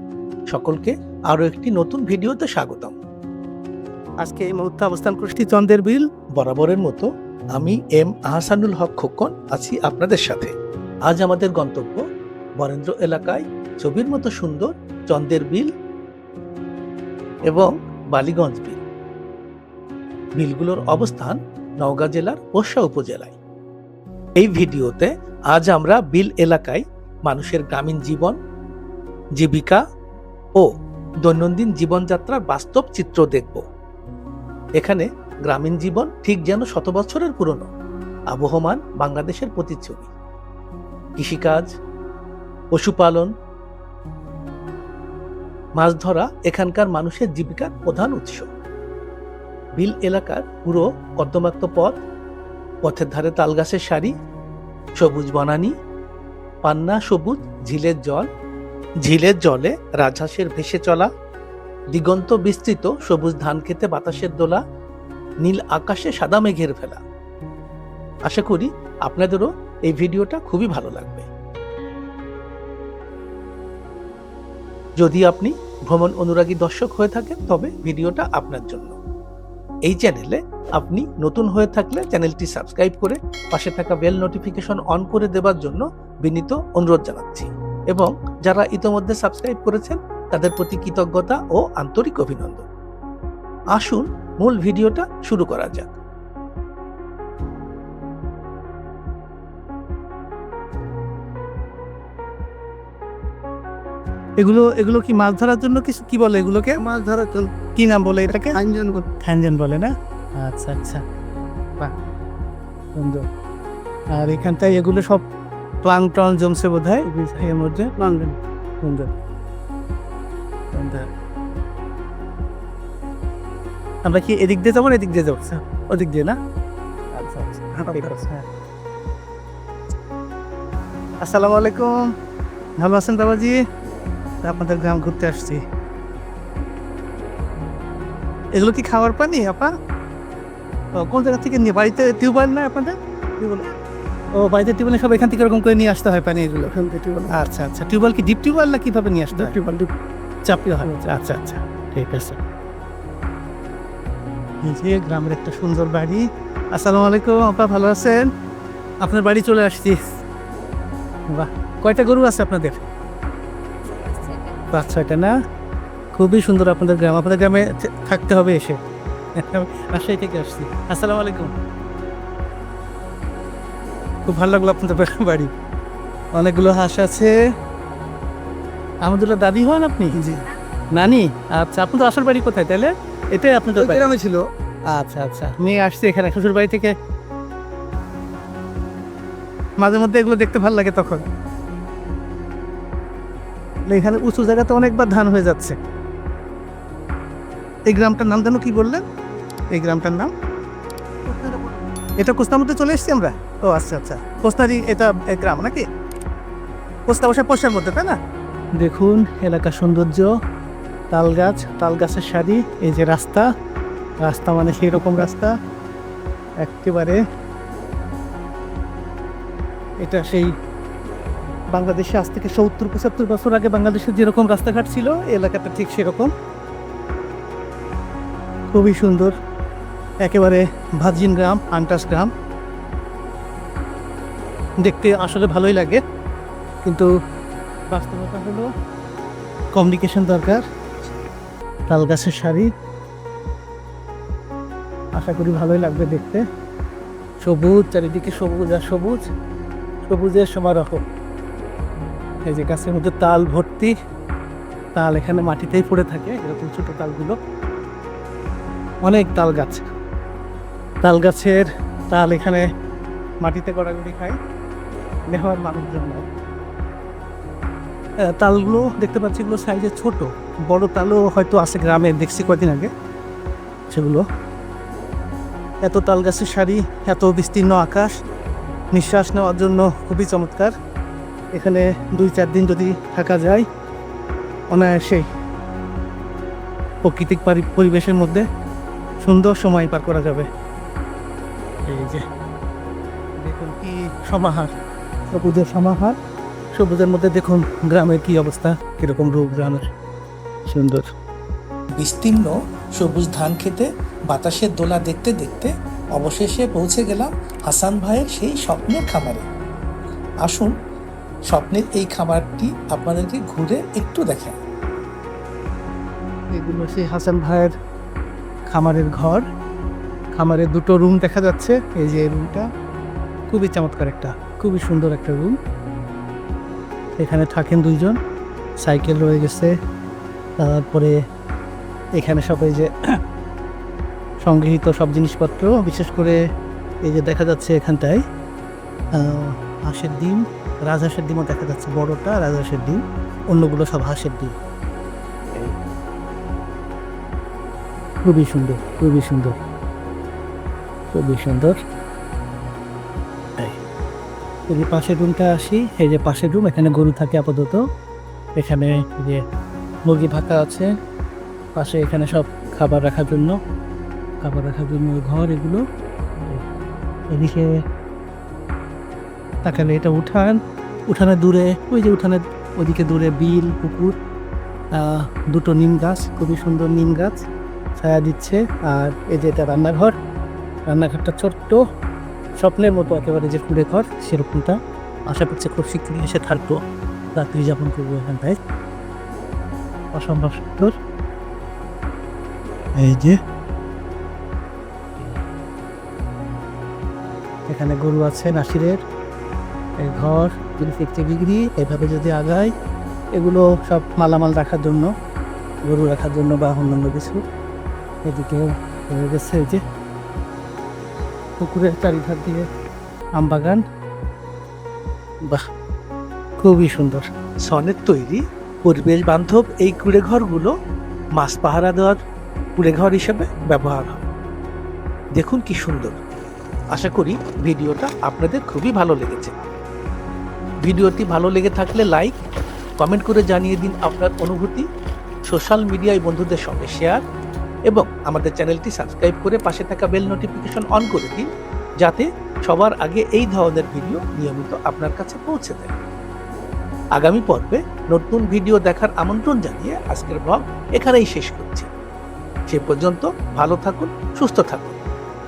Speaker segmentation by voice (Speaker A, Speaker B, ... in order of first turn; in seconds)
Speaker A: 0.5-3.0, 6.4-10.5, 11.1-12.0, 12.6-15.7, 17.5-18.8, 20.4-23.4, 24.4-28.4, 29.4-29.8, 31.2-33.6, 34.8-37.7, 38.3-40.1, 41.2-41.7, 42.8-43.3, 45.8-48.5, 49.8-52.0, 52.8-54.1, 55.0-55.7, 56.6-58.3, 59.0-61.1, 61.9-64.6, 65.4-67.0, 68.3-71.3, 75.0-79.0, 79.9-92.7, 93.8-96.0, 302.0-309.4, 310.4-310.7, 311.5-314.6, 417.7-420.7, 421.4-422.2, 422.8-424.3, 425.4-426.2, 426.9-429.5, 430.8-432.3, 433.0-434.9, 435.5-437.2, 437.9-441.5, 442.0-445.9, 447.2-451.9, 452.7-455.0
Speaker B: 4.2-6.0, 104.4-106.8, 107.8-108.5, 109.2-111.0, 113.0-113.2, 114.2-115.2, 115.8-117.9, 118.8-119.1, 120.7-121.0, 124.0-126.3, 127.2-128.4, 131.2-131.9, 132.8-133.6, 134.4-135.6, 138.6-139.7, 141.0-143.7, 144.4-146.7, 147.3-149.5, 150.5-152.4, 154.6-156.2, 156.8-158.2, 159.0-160.0, 161.3-162.8, 164.7-165.3, 166.2-168.8, 169.4-171.5, 174.3-175.5, 176.4-177.3, 179.0-180.4, 180.9-184.4, 184.9-186.9, 189.8-191.2, 193.9-195.8, 197.9-199.0, 199.7-200.3, 201.3-205.8, 207.1-208.2, 208.8-210.3, 211.1-213.4, 214.2-215.5, 216.6-217.2, 220.0-220.5, 221.7-226.3, 228.7-229.3, 230.2-232.3, 234.8-236.0, 237.9-238.7, 239.7-240.6, 241.9-242.7, 245.2-246.4, 247.4-249.2, 250.1-251.0, 252.5-253.9, 254.9-257.4, 259.0-259.8, 261.0-262.6, 263.4-264.4, 265.3-266.2, 268.4-272.9, 273.9-274.2, 275.8-278.1, 278.9-280.7, 281.5-283.6, 284.7-285.2, 287.1-288.4, 289.2-290.5, 291.9-292.2, 293.4-294.7, 295.3-296.2, 296.7-299.9, 300.7-301.1, 316.5-317.7, 318.7-319.4, 320.4-322.7, 323.5-325.6, 327.2-328.2, 328.8-329.7, 330.6-331.1, 332.2-332.9, 334.4-336.4, 337.0-338.2, 339.2-343.0, 343.5-344.5, 348.2-349.6, 351.1-351.8, 354.7-357.8, 358.6-359.4, 360.1-360.9, 361.8-363.6, 364.4-365.8, 367.3-367.8, 369.6-370.6, 371.1-374.1, 375.0-377.4, 378.0-380.1, 380.9-381.8, 382.6-384.8, 385.3-386.8, 387.4-388.5, 390.1-390.9, 393.0-393.4, 397.7-399.0, 400.0-402.7, 403.4-405.1, 405.9-407.4, 408.2-409.8, 411.6-412.6, 413.4-413.8, 416.6-417.2
Speaker C: 106.8-107.5, 108.5-109.1, 118.0-118.4, 146.8-147.3, 149.6-149.9